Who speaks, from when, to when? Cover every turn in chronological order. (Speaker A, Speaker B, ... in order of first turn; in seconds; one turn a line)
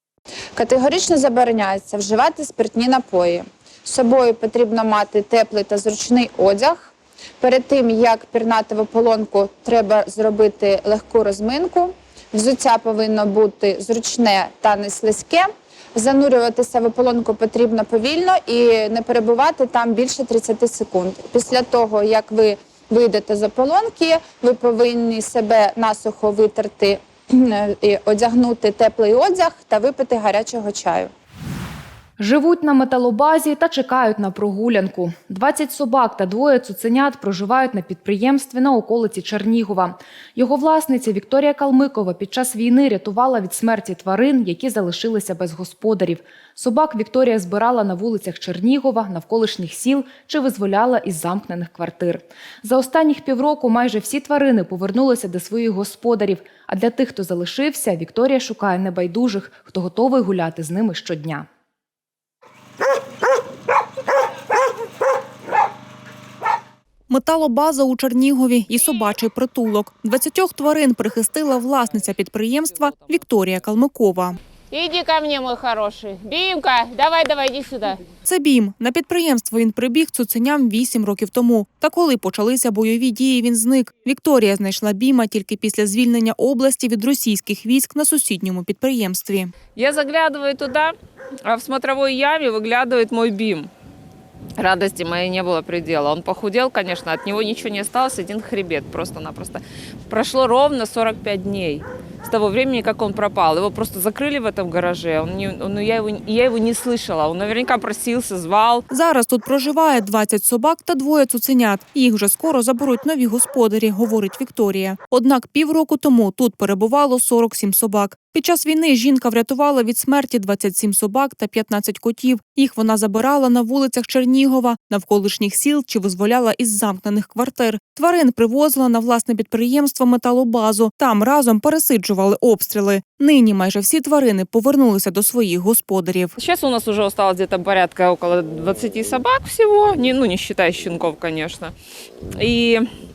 Speaker A: 0.6-31.1
Speaker B: 32.2-61.5
Speaker C: 67.1-74.4
Speaker D: 71.8-73.7
Speaker D: 74.7-78.0
Speaker C: 78.2-89.5
Speaker D: 89.7-90.9
Speaker D: 91.4-93.7
Speaker D: 94.6-108.9
Speaker C: 108.9-136.3
Speaker D: 136.4-141.7
Speaker D: 142.3-142.9